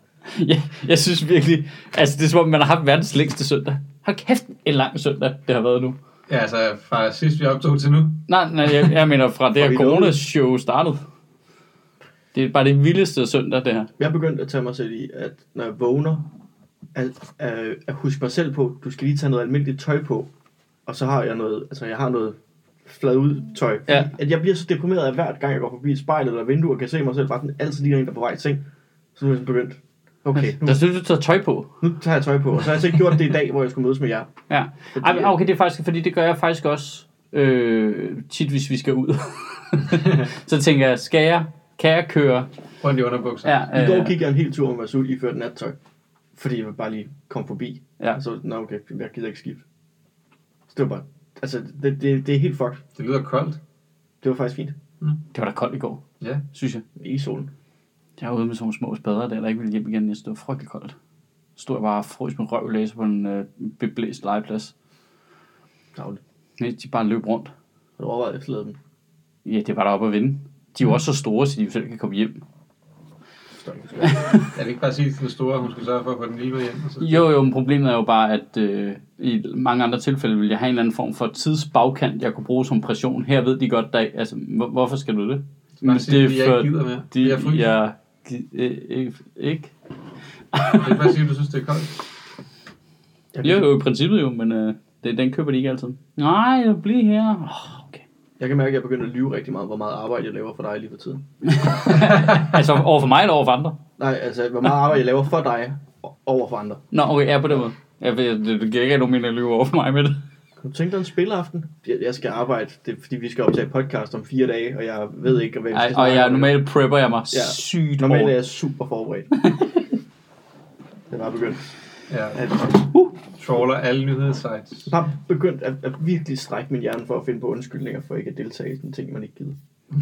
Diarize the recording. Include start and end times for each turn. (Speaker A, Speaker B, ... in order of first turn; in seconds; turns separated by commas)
Speaker A: 0.3-6.0, Speaker B: 6.3-8.9, Speaker A: 8.3-11.0, Speaker C: 9.6-10.2, Speaker A: 12.3-13.9, Speaker C: 14.0-16.3, Speaker C: 16.9-20.3, Speaker C: 20.9-28.6, Speaker C: 29.1-30.8, Speaker A: 30.3-31.7, Speaker C: 31.8-34.3, Speaker A: 34.5-42.5, Speaker C: 34.9-35.3, Speaker B: 42.8-43.6, Speaker A: 43.4-44.1, Speaker C: 43.7-45.8, Speaker C: 46.3-49.6, Speaker C: 50.7-52.8, Speaker B: 53.0-53.6, Speaker C: 54.2-54.8, Speaker A: 55.3-56.0, Speaker A: 56.5-56.8, Speaker C: 57.0-57.5, Speaker A: 58.2-61.0, Speaker A: 61.6-64.7, Speaker C: 65.9-66.2, Speaker A: 66.6-67.5, Speaker C: 68.0-68.8, Speaker A: 69.4-72.4, Speaker C: 73.5-74.3, Speaker A: 74.0-74.4, Speaker B: 74.5-77.2, Speaker A: 77.0-89.7, Speaker B: 85.8-87.7, Speaker A: 90.5-91.1, Speaker B: 90.8-91.9, Speaker C: 93.3-93.7, Speaker A: 93.4-98.0, Speaker C: 98.4-101.2, Speaker A: 101.4-103.8, Speaker B: 102.0-102.5, Speaker C: 104.0-106.8, Speaker A: 106.9-110.2, Speaker C: 110.6-116.6, Speaker A: 115.7-118.4, Speaker C: 117.3-119.3, Speaker C: 121.1-121.7, Speaker B: 122.1-122.4, Speaker C: 122.3-122.9, Speaker B: 123.4-124.9, Speaker C: 124.9-129.6